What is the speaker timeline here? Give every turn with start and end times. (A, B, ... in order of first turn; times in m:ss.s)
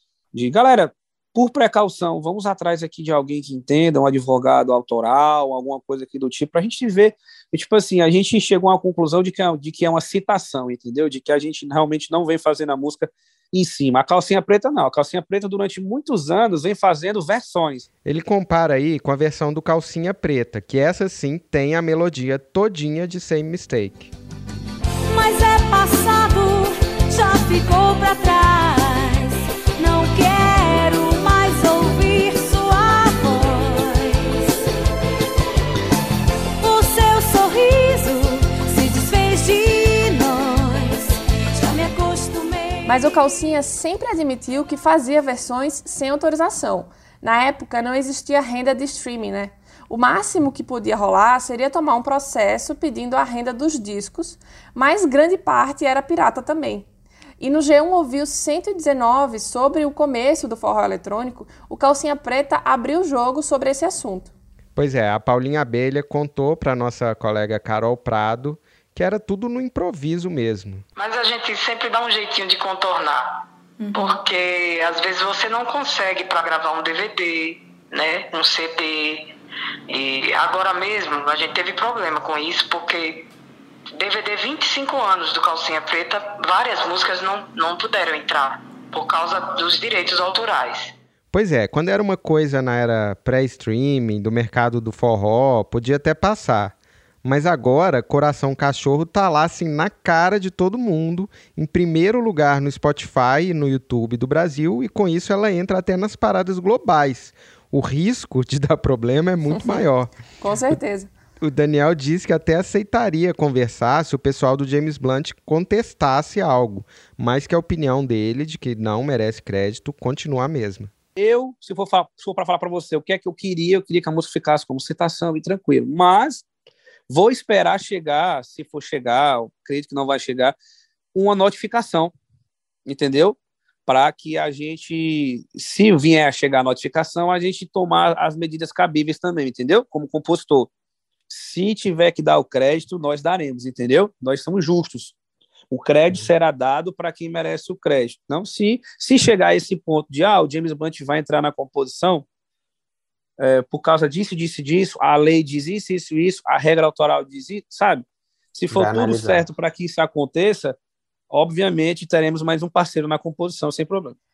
0:00.3-0:17.9 A
0:18.0-0:24.1 B
0:25.1-0:34.6 C
0:36.6-0:43.0 C
0:42.9-0:56.9 D
0:57.4-1:04.3 D
1:04.8-1:10.8 B
1:11.0-1:13.4 E
1:13.9-1:19.3 E
1:19.9-1:23.3 E
1:23.9-1:30.9 E
1:31.3-1:50.1 B
1:49.5-1:49.8 D
1:50.4-1:51.1 D
1:51.4-2:00.9 B
2:01.2-2:06.4 A
2:07.1-2:10.6 A
2:11.2-2:12.1 A
2:12.9-2:20.7 A
2:21.3-2:25.2 A
2:25.7-2:32.2 A
2:33.4-2:40.8 A
2:38.7-2:39.5 B
2:41.3-2:44.2 A